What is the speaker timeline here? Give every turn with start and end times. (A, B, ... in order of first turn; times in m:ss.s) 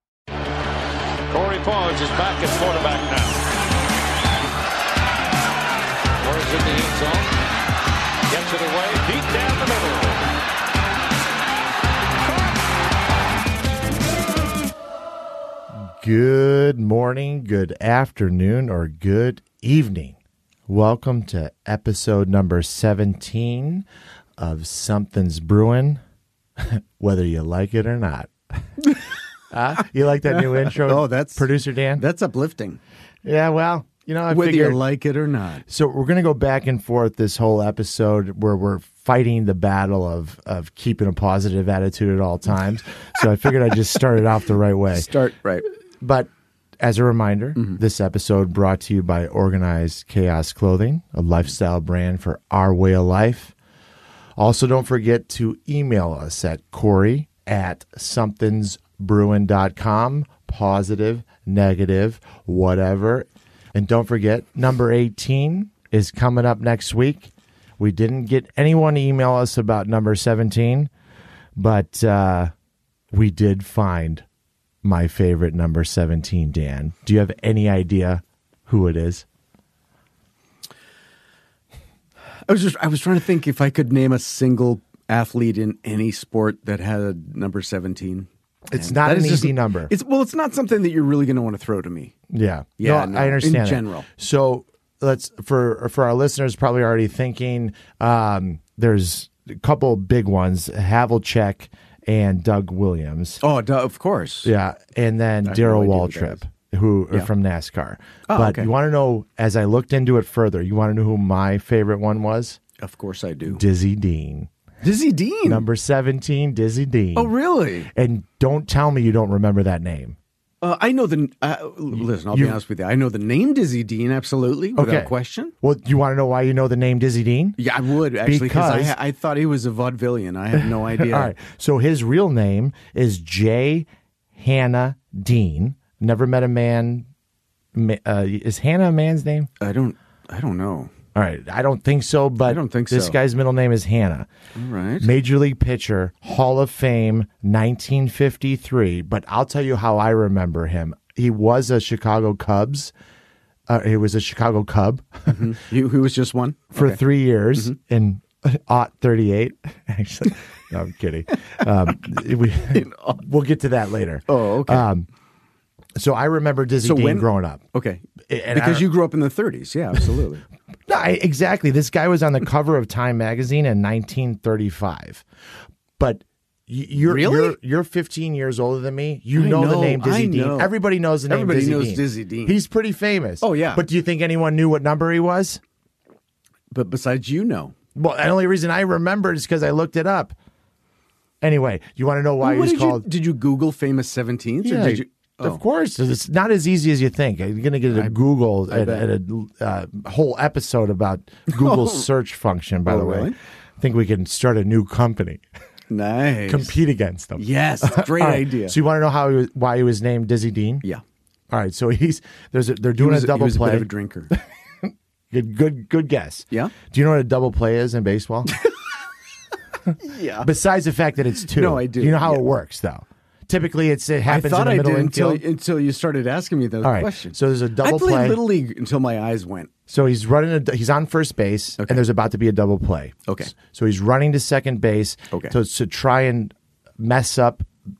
0:01.3-0:03.4 A
0:06.2-0:07.3 A
0:08.3-0:10.3 A
0:15.8-0:23.8 B
0:24.4-0:26.0 B
0:26.6-0:28.6 B
0:29.5-0:32.0 B
0:30.3-0:32.8 C
0:33.2-0:34.8 B
0:34.3-0:35.6 C
0:35.7-0:45.1 B
0:44.9-0:45.6 C
0:46.0-0:53.5 B
0:54.4-1:10.9 B
1:11.6-1:12.5 B
1:13.1-1:14.2 B
1:14.8-1:19.2 B
1:22.4-1:32.1 C
1:28.7-1:29.9 B
1:32.3-1:43.4 B
1:32.8-1:34.1 C
1:43.4-1:44.5 C
1:44.4-1:52.6 B
1:45.4-1:46.4 C
1:48.3-1:48.7 C
1:52.8-1:53.6 C
1:53.5-1:54.5 B
1:54.8-1:55.6 C
1:55.4-1:57.3 B
1:57.2-1:57.9 C
1:57.9-2:00.2 B
2:00.6-2:05.5 C
2:01.9-2:02.6 B
2:04.8-2:07.6 B
2:07.6-2:11.3 C
2:08.2-2:09.0 B
2:10.6-2:17.1 B
2:17.7-2:19.5 B
2:19.6-2:20.9 C
2:21.1-2:24.3 B
2:22.4-2:23.2 C
2:24.5-2:25.1 C
2:25.0-2:32.9 B
2:33.7-2:35.5 B
2:35.3-2:37.0 C
2:36.7-2:45.1 B
2:42.7-2:43.2 C
2:44.3-2:44.9 C
2:46.0-2:47.6 B
2:46.8-2:50.4 C
2:48.2-2:48.9 B
2:50.9-2:55.2 B
2:56.0-3:05.6 B
2:57.0-2:57.6 C
2:59.3-3:00.7 C
3:01.3-3:02.6 C
3:03.4-3:03.8 C
3:06.7-3:07.7 C
3:08.0-3:10.4 B
3:11.4-3:13.0 B
3:12.4-3:15.6 C
3:14.6-3:25.4 B
3:18.7-3:19.1 C
3:21.5-3:22.1 C
3:22.8-3:23.4 C
3:25.9-3:26.7 C
3:26.4-3:30.8 B
3:27.4-3:28.8 C
3:31.5-3:38.5 B
3:33.0-3:34.3 C
3:40.0-3:40.5 C
3:40.4-3:45.4 B
3:41.5-3:42.4 C
3:44.3-3:49.7 C
3:46.8-3:48.4 B
3:49.9-3:57.7 B
3:53.3-3:53.5 C